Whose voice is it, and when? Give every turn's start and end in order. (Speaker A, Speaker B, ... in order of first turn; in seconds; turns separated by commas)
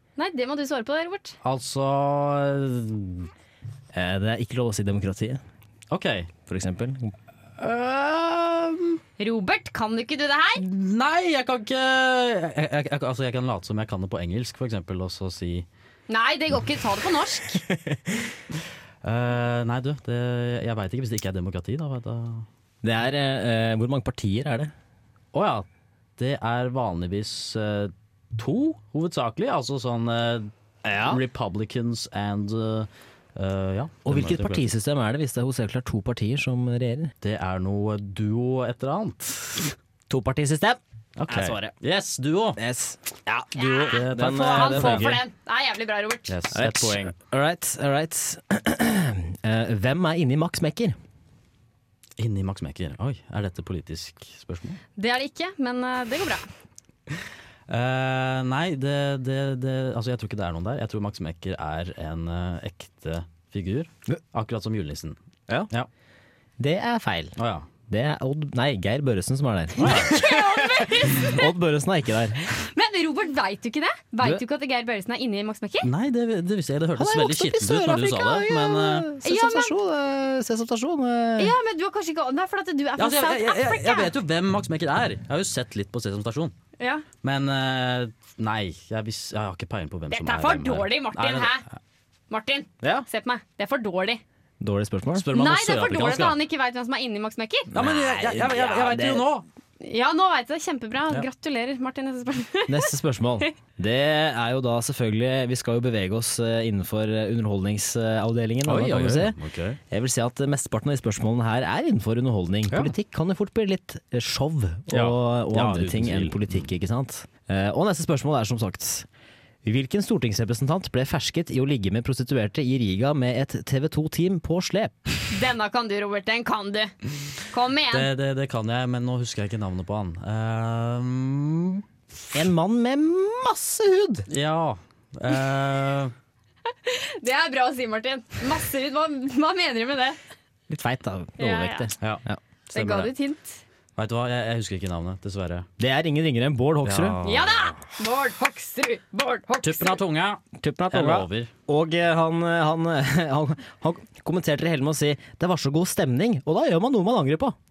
Speaker A: 0.2-1.4, Speaker B: 1.4-3.3, Speaker C: 3.9-5.4, Speaker B: 5.9-6.3, Speaker C: 6.5-7.2, Speaker B: 7.6-9.0, Speaker A: 9.2-10.6, Speaker B: 10.6-15.7, Speaker A: 16.1-17.6, Speaker C: 17.5-18.3, Speaker B: 19.0-22.4, Speaker C: 22.8-24.7, Speaker B: 25.3-25.6, Speaker B: 26.2-30.5, Speaker C: 30.8-31.2, Speaker B: 31.0-34.7, Speaker C: 34.0-37.1, Speaker B: 37.2-39.7, Speaker C: 40.1-41.7, Speaker B: 41.2-42.6, Speaker C: 42.6-45.2, Speaker A: 43.5-46.3, Speaker B: 43.9-45.1, Speaker B: 46.3-47.1, Speaker C: 46.5-51.0, Speaker B: 52.2-54.8, Speaker A: 55.0-56.4, Speaker B: 57.7-65.2, Speaker C: 66.6-67.3, Speaker B: 67.4-67.7, Speaker C: 67.9-72.5, Speaker B: 69.8-70.2, Speaker A: 69.8-71.5, Speaker A: 72.6-75.9, Speaker B: 75.8-79.1, Speaker C: 76.9-81.5, Speaker A: 79.2-79.7, Speaker A: 81.4-84.1, Speaker B: 83.0-86.5, Speaker A: 86.8-87.0, Speaker B: 87.2-91.6, Speaker A: 90.1-91.6, Speaker A: 92.3-94.2, Speaker C: 92.8-93.0, Speaker C: 94.6-95.3, Speaker B: 95.1-96.4, Speaker A: 95.3-97.7, Speaker C: 97.7-99.2, Speaker B: 97.7-99.4, Speaker A: 99.8-102.9, Speaker C: 102.7-109.4, Speaker B: 108.6-109.8, Speaker C: 109.9-119.1, Speaker B: 114.9-116.7, Speaker C: 119.6-125.1, Speaker A: 125.3-126.9, Speaker A: 127.5-128.1, Speaker B: 127.9-131.8, Speaker C: 132.3-134.3, Speaker B: 134.3-136.1, Speaker A: 136.8-140.2, Speaker C: 140.7-142.4, Speaker A: 141.4-141.9, Speaker A: 142.7-143.6, Speaker B: 142.7-143.1, Speaker B: 144.0-145.7, Speaker C: 145.8-147.2, Speaker B: 146.8-147.8, Speaker A: 147.2-150.0, Speaker B: 149.6-151.5, Speaker C: 150.6-157.6